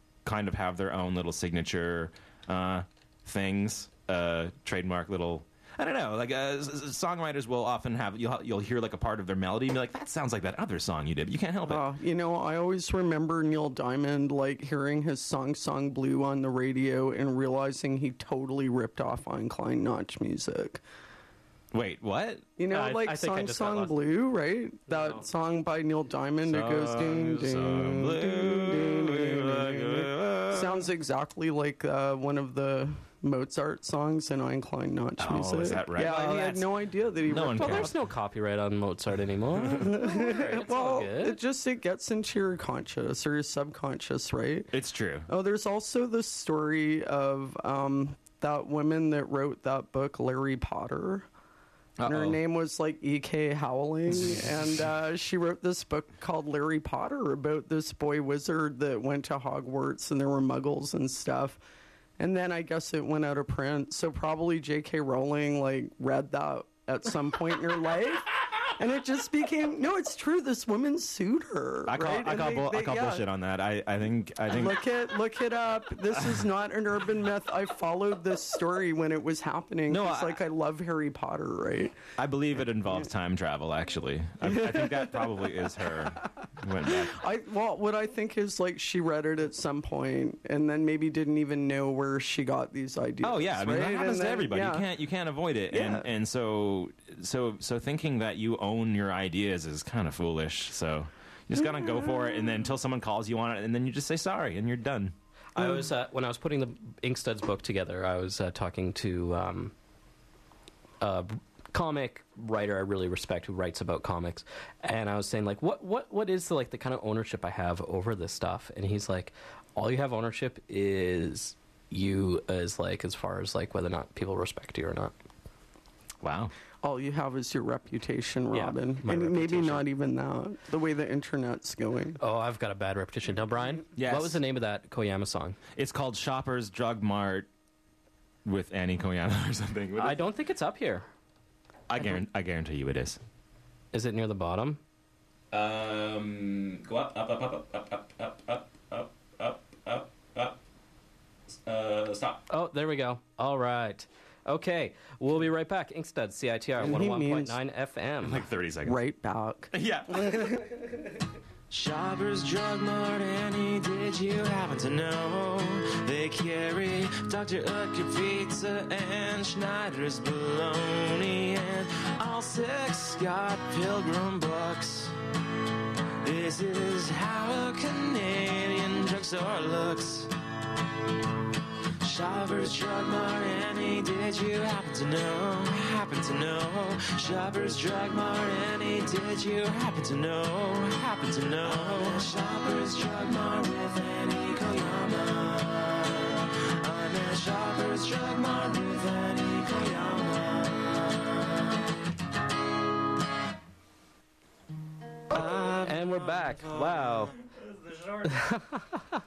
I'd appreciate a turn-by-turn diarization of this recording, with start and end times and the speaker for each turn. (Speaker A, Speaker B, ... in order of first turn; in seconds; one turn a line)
Speaker A: 0.2-11.8
Speaker B: 11.7-20.8
Speaker A: 21.7-22.4
Speaker B: 22.6-37.9
Speaker C: 22.7-23.9
Speaker C: 24.9-25.2
Speaker A: 26.5-30.9
Speaker A: 35.2-38.0
Speaker C: 37.5-41.4
Speaker B: 39.7-44.7
Speaker A: 44.7-45.3
Speaker B: 45.3-51.3
Speaker A: 52.0-52.4
Speaker B: 52.0-61.6
Speaker B: 62.2-73.2
Speaker A: 71.9-74.8
Speaker B: 74.5-82.0
Speaker A: 79.9-80.4
Speaker A: 82.2-87.2
Speaker B: 84.5-85.4
Speaker B: 86.9-94.8
Speaker A: 93.2-105.1
Speaker B: 95.7-96.1
Speaker C: 105.5-109.7
Speaker C: 111.0-125.1
Speaker A: 126.2-126.5
Speaker B: 126.8-132.2
Speaker C: 128.5-129.8
Speaker C: 132.2-135.6
Speaker A: 133.9-134.4
Speaker A: 135.7-137.5
Speaker A: 138.4-140.2
Speaker C: 140.0-141.1
Speaker A: 141.9-143.2
Speaker C: 143.9-144.8
Speaker A: 145.5-150.6
Speaker A: 151.6-152.4
Speaker C: 152.5-158.4
Speaker B: 156.8-157.6
Speaker A: 158.2-159.0
Speaker B: 158.8-159.7
Speaker A: 159.7-160.7
Speaker A: 161.7-175.1
Speaker A: 176.2-180.3
Speaker A: 182.0-201.4
Speaker A: 205.3-208.4
Speaker C: 205.7-207.3
Speaker C: 208.3-209.0